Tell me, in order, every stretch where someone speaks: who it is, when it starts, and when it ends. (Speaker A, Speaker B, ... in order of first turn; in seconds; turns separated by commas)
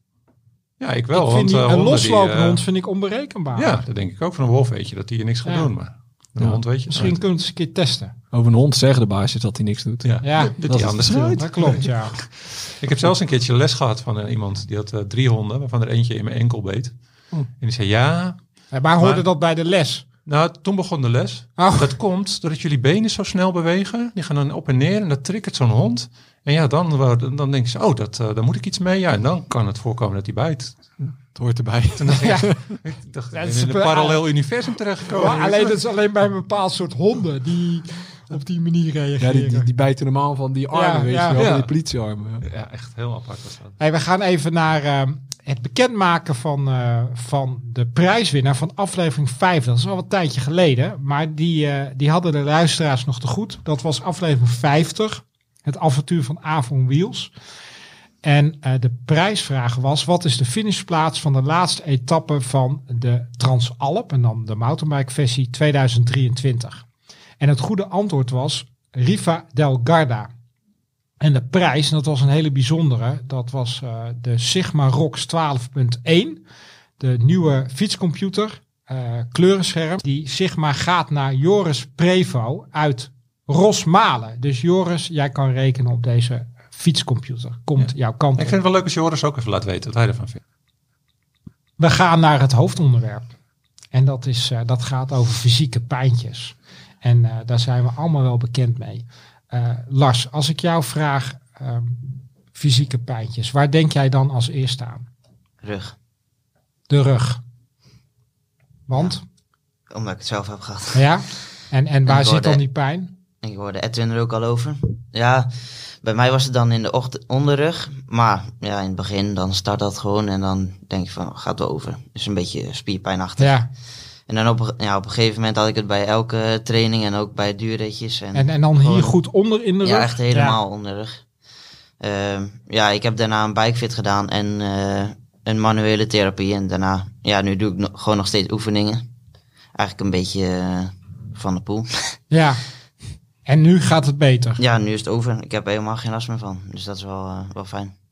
Speaker A: 0.8-2.6, Speaker B: 1.1-3.8, Speaker A: 3.5-7.2, Speaker B: 5.4-5.7, Speaker B: 6.9-8.1, Speaker C: 8.3-11.7, Speaker A: 10.0-18.4, Speaker B: 10.2-10.6, Speaker B: 11.3-12.2, Speaker B: 18.7-20.0, Speaker A: 19.0-19.2, Speaker A: 20.2-30.8, Speaker B: 21.6-21.9, Speaker C: 31.0-32.6, Speaker A: 31.9-35.8, Speaker B: 32.1-32.5, Speaker B: 33.3-34.2, Speaker B: 35.1-39.7, Speaker C: 39.2-42.4, Speaker B: 40.7-41.5, Speaker A: 41.3-41.7, Speaker A: 42.4-43.8, Speaker B: 43.8-57.3, Speaker B: 58.2-66.8, Speaker B: 67.4-70.3, Speaker B: 71.2-76.4, Speaker B: 77.0-88.6, Speaker A: 87.8-90.4, Speaker B: 91.8-93.3, Speaker B: 93.9-105.0, Speaker D: 105.6-105.9, Speaker B: 106.9-107.4, Speaker B: 108.9-109.2, Speaker D: 109.9-111.0, Speaker B: 110.9-113.1, Speaker D: 112.0-112.6, Speaker D: 113.4-123.6, Speaker B: 123.4-123.7, Speaker D: 124.3-129.1, Speaker B: 128.3-130.6, Speaker D: 129.8-131.2, Speaker D: 132.0-139.0, Speaker D: 139.7-142.2, Speaker B: 142.3-142.6, Speaker B: 143.4-144.6, Speaker D: 144.6-147.9